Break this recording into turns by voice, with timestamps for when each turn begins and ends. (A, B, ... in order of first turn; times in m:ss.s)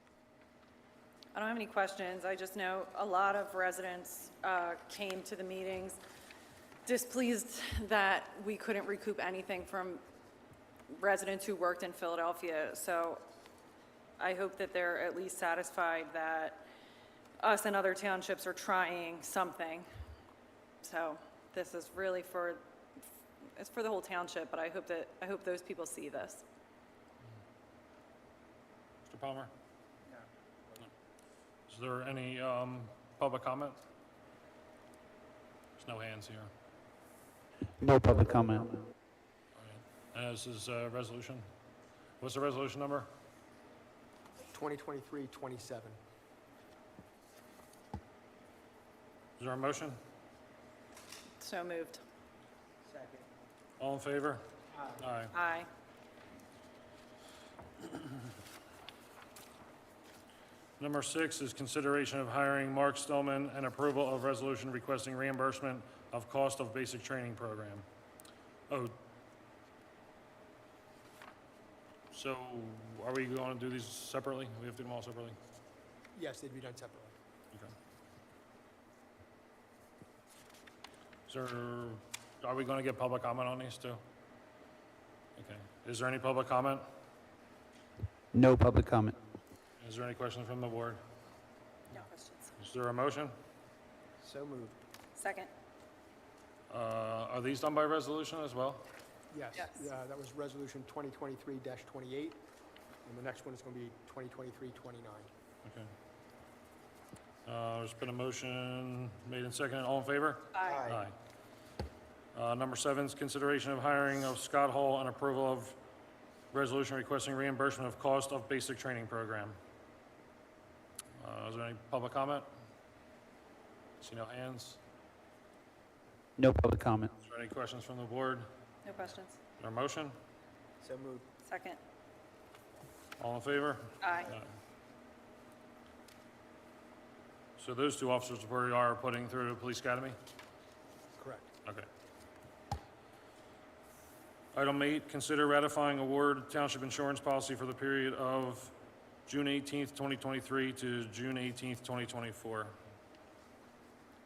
0:01.3-0:06.0 A
0:06.8-0:10.0 A
0:10.9-0:13.2 A
0:14.2-0:16.7 A
0:17.4-0:19.9 A
0:20.8-0:22.7 A
0:23.6-0:26.4 A
0:29.1-0:29.5 B
0:31.7-0:33.8 B
0:35.8-0:36.5 B
0:37.8-0:38.8 C
0:39.6-0:41.5 B
0:42.2-0:43.1 B
0:44.5-0:46.0 D
0:49.4-0:50.0 B
0:51.4-0:52.0 A
0:52.9-0:53.2 E
0:53.8-0:55.3 B
0:55.3-0:55.7 A
1:00.8-1:07.9 B
1:08.7-1:09.0 B
1:12.1-1:15.4 B
1:16.1-1:17.1 D
1:21.3-1:24.0 B
1:25.4-1:26.8 B
1:28.3-1:29.2 C
1:29.8-1:31.0 B
1:31.9-1:32.5 A
1:32.6-1:33.4 B
1:34.2-1:34.8 E
1:35.2-1:35.5 A
1:36.7-1:38.9 B
1:39.3-1:42.4 D
1:39.5-1:39.8 A
1:43.0-1:45.3 D
1:45.6-1:45.9 B
1:47.5-1:51.2 B
1:50.5-1:50.8 A
1:50.6-1:51.1 E
1:52.3-1:55.8 B
1:56.5-1:59.6 B
2:01.2-2:02.5 B
2:04.0-2:04.8 B
2:06.4-2:07.1 C
2:07.2-2:08.5 B
2:08.8-2:09.4 A
2:09.6-2:10.2 B
2:10.8-2:11.3 E
2:11.4-2:11.8 A
2:13.2-2:14.5 B
2:14.0-2:14.3 A
2:17.6-2:20.2 B
2:21.2-2:21.5 D
2:24.5-2:28.7 B
2:29.3-2:32.8 B